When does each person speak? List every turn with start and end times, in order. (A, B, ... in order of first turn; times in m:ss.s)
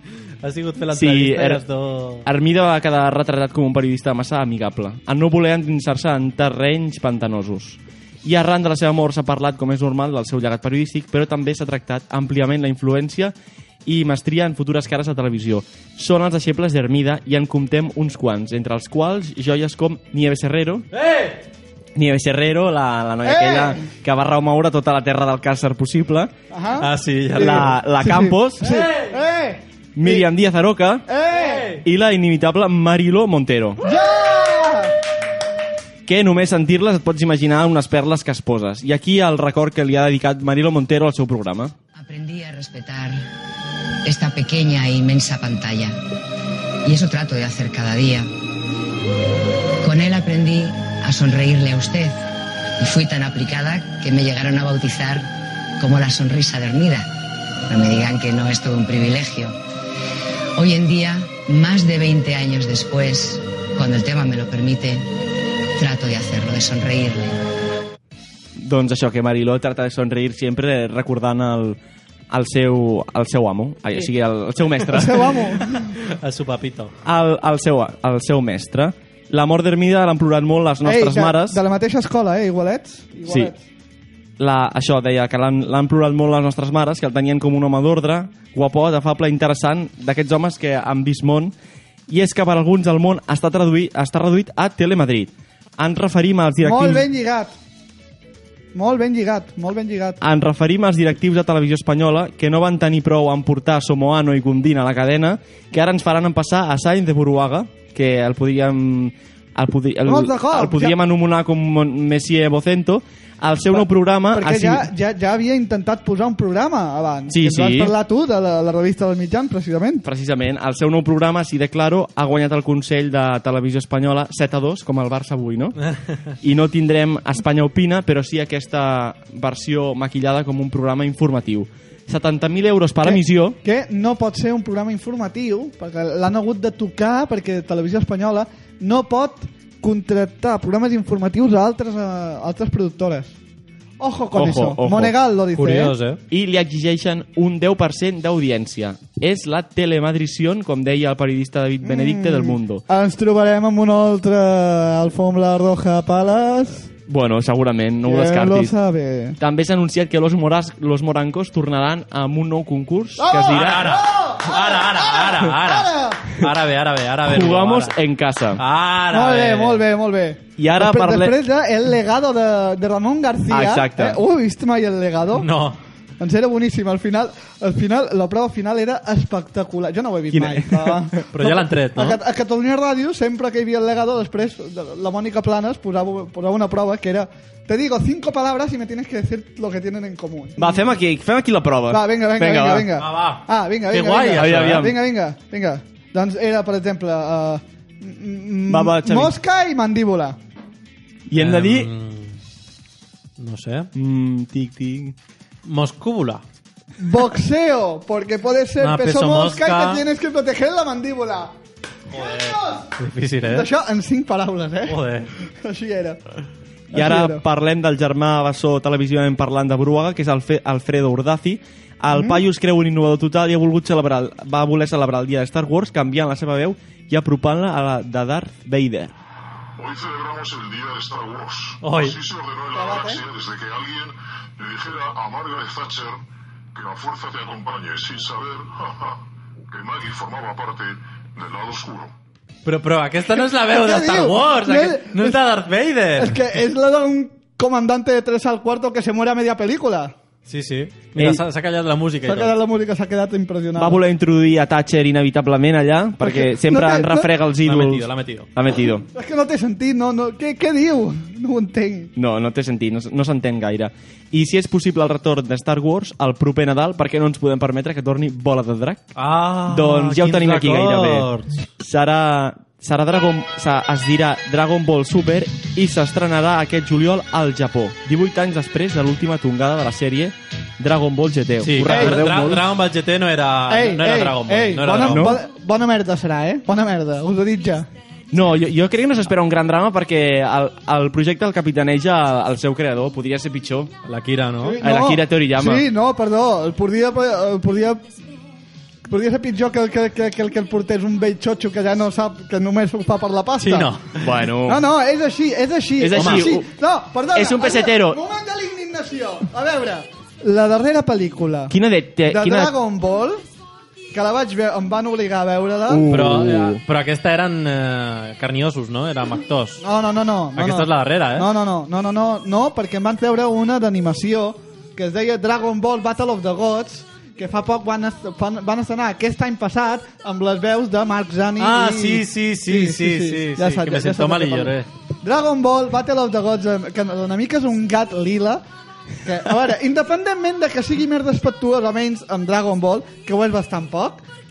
0:00.4-0:02.3 A
0:00.9-0:01.6 B
0:02.2-0:20.9 B
0:20.9-0:21.4 A
0:22.0-0:26.3 B
0:23.2-0:23.8 C
0:26.5-0:30.3 C
0:26.8-0:27.7 A
0:27.4-0:28.8 B
0:28.6-0:29.2 A
0:30.0-0:31.1 B
0:31.1-0:31.7 C
0:31.3-0:31.8 A
0:31.8-0:33.8 B
0:33.8-0:34.9 C
0:36.1-0:41.7 B
0:41.9-0:43.2 D
0:44.0-0:46.0 D
0:46.8-0:48.3 D
0:49.8-0:52.2 D
0:52.8-0:55.3 D
0:55.8-0:57.1 D
0:57.7-0:59.6 D
1:00.6-1:05.0 D
1:05.8-1:07.4 D
1:08.6-1:11.8 B
1:12.3-1:15.3 B
1:14.9-1:15.9 C
1:16.0-1:16.9 A
1:17.0-1:21.6 B
1:20.8-1:23.6 C
1:23.3-1:23.5 B
1:24.4-1:31.5 B
1:32.1-1:37.1 B
1:36.6-1:37.5 C
1:38.7-1:40.2 C
1:40.2-1:54.9 B
1:50.1-1:51.0 C
1:53.7-2:00.0 C
1:57.3-1:57.9 B
2:00.0-2:05.8 B
2:06.4-2:13.6 B
2:13.0-2:23.4 C
2:24.0-2:25.9 C
2:24.3-2:25.1 B
2:25.6-2:26.2 A
2:26.3-2:32.8 B
2:31.8-2:36.9 C
2:37.1-2:38.7 B
2:38.1-2:39.4 C
2:39.4-2:44.0 B
2:43.2-2:46.3 C
2:43.4-2:48.0 A
2:47.2-2:48.6 B
2:48.6-2:49.8 A
2:49.1-2:55.5 C
2:50.6-2:51.4 B
2:53.5-2:54.2 B
2:55.4-2:55.8 A
2:56.2-3:10.9 C
3:00.3-3:01.1 B
3:01.3-3:02.2 A
3:10.6-3:12.9 B
3:11.9-3:20.4 C
3:13.0-3:14.9 A
3:14.3-3:15.0 B
3:18.7-3:19.4 B
3:21.3-3:21.9 B
3:21.4-3:22.4 A
3:23.4-3:23.9 A
3:23.9-3:25.2 B
3:25.6-3:26.4 A
3:27.0-3:31.5 C
3:28.8-3:30.0 A
3:32.1-3:33.7 A
3:32.1-3:32.9 C
3:33.4-3:36.2 C
3:34.9-3:35.3 A
3:36.9-3:49.1 B
3:36.9-3:37.4 C
3:42.1-3:42.4 C
3:49.8-3:56.2 E
3:51.8-3:52.2 A
3:52.7-3:53.2 C
3:56.7-4:02.1 E
4:02.6-4:06.4 A
4:03.4-4:05.4 C
4:06.2-4:10.2 C
4:10.5-4:12.6 A
4:12.2-4:14.0 C
4:13.8-4:19.1 B
4:16.2-4:17.3 C
4:17.6-4:18.5 A
4:19.1-4:22.1 C
4:22.2-4:29.1 B
4:29.2-4:31.5 A
4:29.6-4:42.7 B
4:41.6-4:45.4 A
4:41.8-4:42.3 C
4:43.7-4:47.9 C
4:45.0-4:45.4 B
4:48.3-4:53.9 B
4:54.0-4:54.8 A
4:54.6-4:58.0 C
4:54.8-4:55.9 B
4:59.1-5:03.9 C
5:03.6-5:04.2 A
5:04.2-5:04.8 B
5:04.6-5:11.7 C
5:06.0-5:06.7 B
5:06.2-5:06.4 A
5:07.3-5:08.2 B
5:11.7-5:12.7 B
5:12.3-5:13.4 C
5:14.1-5:16.1 C
5:15.9-5:16.8 B
5:16.1-5:19.8 A
5:19.8-5:38.6 C
5:20.6-5:21.5 A
5:31.6-5:34.9 A
5:39.2-5:44.2 C